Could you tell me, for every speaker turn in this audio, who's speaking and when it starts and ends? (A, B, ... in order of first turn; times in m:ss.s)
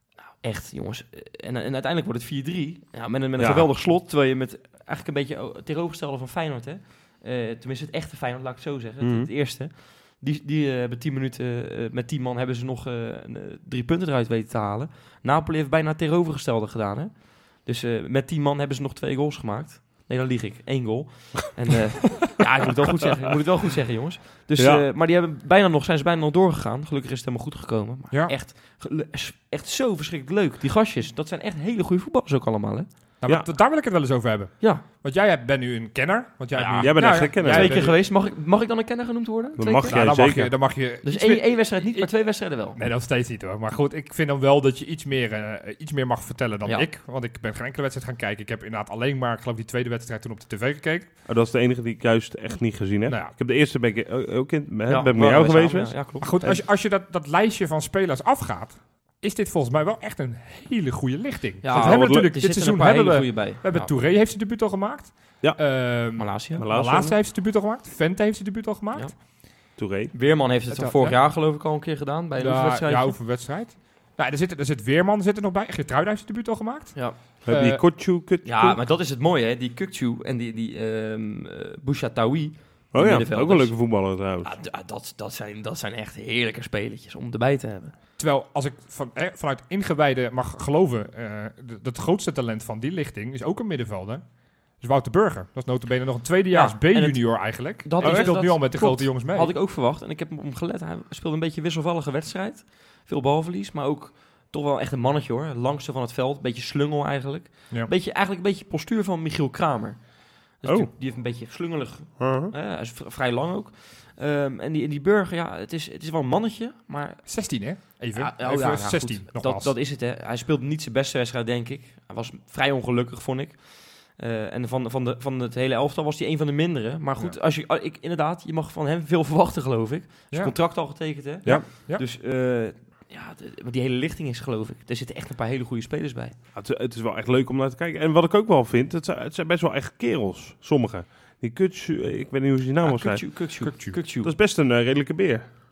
0:00.4-0:32.9 A
0:03.4-0:03.7 B
0:09.0-0:09.3 B
0:24.6-0:24.8 B
0:28.1-0:28.4 C
0:33.2-0:38.0 C
0:34.6-0:34.8 A
0:36.5-0:40.3 A
0:36.8-0:37.9 B
0:39.6-0:40.6 B
0:39.9-0:51.2 C
0:41.0-0:42.8 A
0:51.3-0:56.6 B
0:53.1-0:53.3 C
0:54.9-0:56.6 A
0:56.2-1:09.2 C
1:01.6-1:03.9 A
1:01.7-1:02.3 B
1:05.4-1:07.2 B
1:06.2-1:06.6 A
1:09.0-1:09.3 A
1:09.8-1:10.1 B
1:10.1-1:13.2 A
1:10.7-1:11.2 C
1:12.4-1:17.9 C
1:17.5-1:18.8 B
1:18.4-1:27.9 A
1:22.9-1:24.5 B
1:28.2-1:39.5 C
1:36.5-1:57.5 A
1:38.0-1:38.3 B
1:50.6-1:50.9 B
1:52.2-1:52.5 B
1:57.3-1:59.8 C
1:58.1-2:16.4 A
2:10.3-2:12.0 C
2:16.5-2:23.5 B
2:22.8-2:24.3 A
2:23.6-2:24.0 C
2:24.1-2:25.5 B